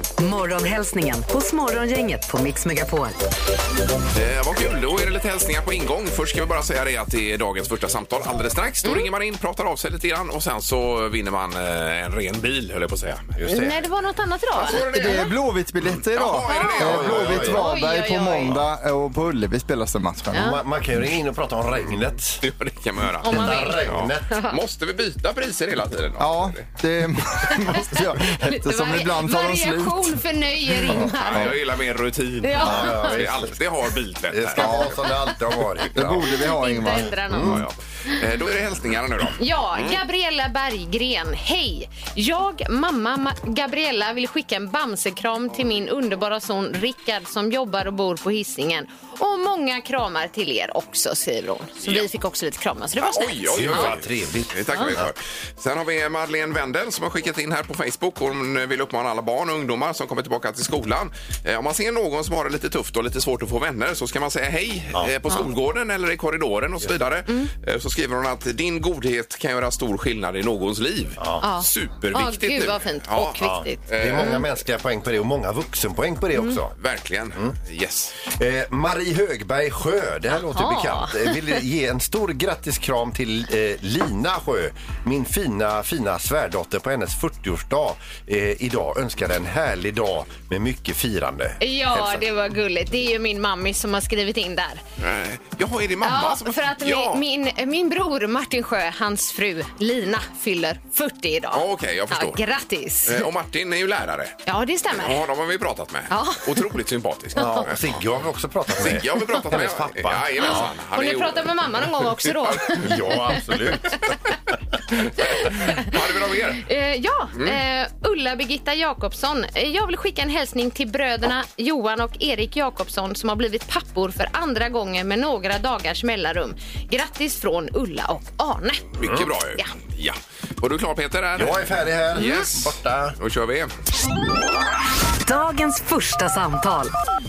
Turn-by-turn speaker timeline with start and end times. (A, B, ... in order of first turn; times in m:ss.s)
0:00.2-0:03.2 A
0:04.1-0:13.3 B
0:13.4-0:13.8 C
0:13.4-0:15.1 D
0:14.6-0:15.3 B
0:14.7-0:20.5 E
0:16.0-0:17.4 B
0:16.5-0:18.6 D
0:16.8-0:17.6 C
0:20.3-0:22.4 C
0:22.4-0:26.6 B
0:23.2-0:24.6 D
0:23.2-0:24.2 C
0:26.2-0:30.2 E
0:27.4-0:31.5 D
0:30.9-0:31.5 E
0:31.0-0:34.9 B
0:32.4-0:33.1 D
0:32.6-0:33.5 C
0:34.3-0:36.3 C
0:34.6-0:35.0 E
0:35.9-0:37.5 E
0:36.3-0:37.6 D
0:37.3-0:37.6 C
0:37.4-0:40.0 B
0:39.4-0:53.9 D
0:53.0-1:14.4 B
0:53.5-0:55.1 C
1:11.4-1:14.4 D
1:13.4-1:16.7 C
1:16.8-1:18.1 B
1:18.2-1:32.2 C
1:20.5-1:21.4 D
1:31.6-1:34.8 D
1:35.0-1:37.2 B
1:36.0-1:43.3 D
1:41.5-1:42.4 B
1:43.0-1:44.4 B
1:44.4-1:45.2 D
1:44.9-1:47.9 B
1:46.1-1:46.6 D
1:47.4-1:50.7 C
1:48.7-1:52.7 B
1:50.4-1:53.3 D
1:52.7-1:54.3 C
1:55.2-1:56.6 B
1:55.5-1:55.9 D
1:56.6-2:08.9 D
2:09.0-2:13.7 B
2:09.0-2:09.3 C
2:11.3-2:13.2 C
2:15.2-2:16.9 A